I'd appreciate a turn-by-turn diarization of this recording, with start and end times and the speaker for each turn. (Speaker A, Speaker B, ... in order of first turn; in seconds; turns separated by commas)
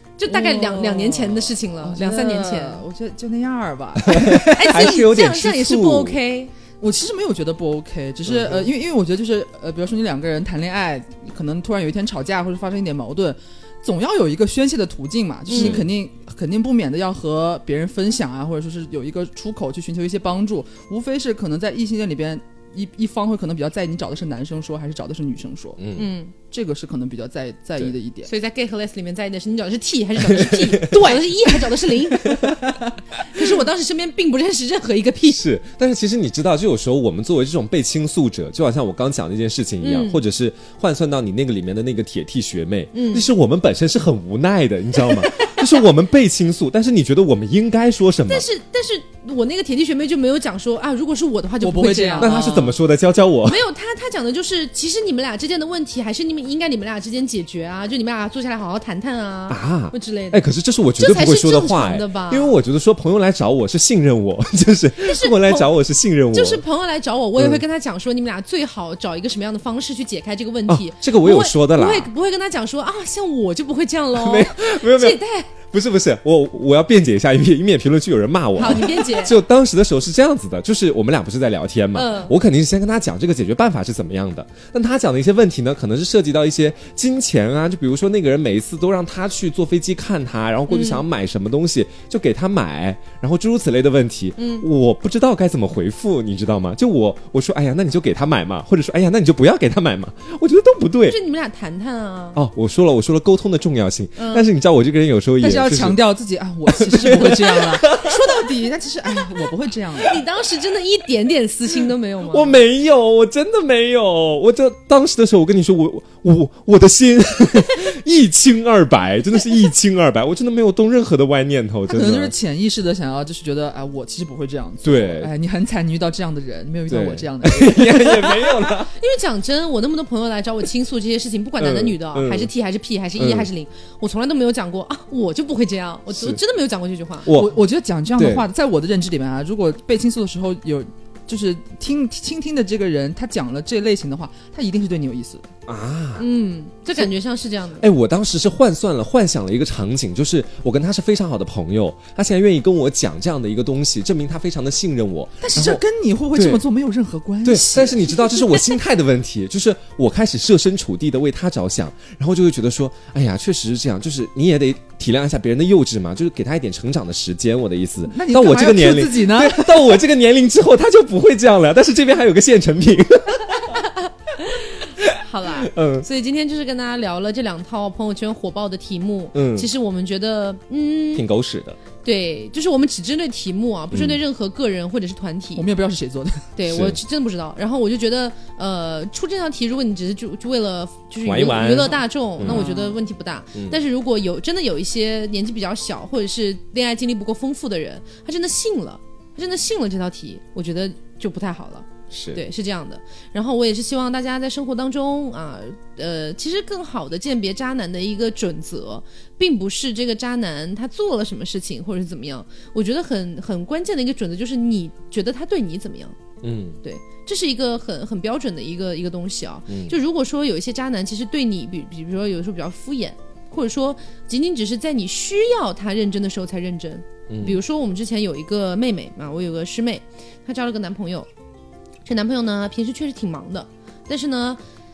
Speaker A: 0.2-2.8, Speaker B: 0.2-4.5, Speaker C: 4.0-6.2, Speaker A: 4.3-6.5, Speaker B: 6.8-25.8, Speaker C: 8.2-8.7, Speaker A: 15.5-15.8, Speaker C: 15.5-15.9, Speaker C: 25.8-26.1, Speaker A: 25.9-26.3, Speaker B: 26.5-28.3, Speaker A: 28.2-32.6, Speaker C: 30.2-31.0, Speaker B: 30.9-32.0, Speaker B: 32.6-32.9, Speaker A: 33.2-35.4, Speaker C: 35.3-48.5, Speaker A: 39.8-40.2, Speaker A: 42.9-43.3, Speaker A: 45.2-45.6, Speaker A: 48.3-52.8, Speaker B: 51.6-52.5, Speaker C: 52.2-53.6, Speaker A: 53.4-60.4, Speaker C: 59.5-66.6, Speaker A: 61.0-62.6, Speaker A: 65.0-65.7, Speaker A: 66.3-75.5, Speaker C: 67.4-67.6, Speaker C: 70.7-72.1, Speaker C: 74.1-101.2, Speaker A: 78.5-79.4, Speaker A: 81.9-82.3, Speaker A: 90.7-91.0, Speaker A: 94.4-94.7, Speaker A: 101.0-102.4, Speaker C: 102.3-106.0, Speaker A: 104.2-104.5, Speaker B: 105.4-110.2, Speaker C: 106.7-108.3, Speaker A: 110.0-112.6, Speaker C: 112.3-122.3, Speaker B: 121.9-128.7, Speaker C: 124.8-125.3, Speaker C: 126.9-128.9, Speaker A: 128.9-137.3, Speaker C: 131.6-132.5, Speaker C: 133.2-133.5, Speaker C: 136.1-136.4, Speaker C: 137.2-137.6, Speaker B: 137.3-145.5, Speaker C: 138.1-138.5, Speaker C: 145.7-146.2, Speaker A: 146.2-147.8, Speaker C: 147.8-155.8, Speaker B: 155.4-158.6, Speaker C: 156.3-156.6, Speaker C: 157.4-173.8, Speaker B: 168.1-170.0, Speaker A: 174.4-181.2, Speaker C: 175.0-176.1, Speaker C: 179.3-179.7, Speaker C: 181.1-181.8, Speaker A: 182.0-185.6, Speaker C: 183.9-184.2, Speaker B: 185.6-186.5, Speaker A: 186.5-216.2, Speaker C: 186.7-187.0, Speaker C: 191.2-192.7, Speaker B: 192.4-193.0, Speaker C: 193.5-193.8, Speaker C: 202.1-202.4, Speaker C: 216.4-216.8, Speaker A: 216.8-231.3, Speaker C: 219.7-219.9, Speaker C: 227.3-227.6, Speaker A: 232.0-234.6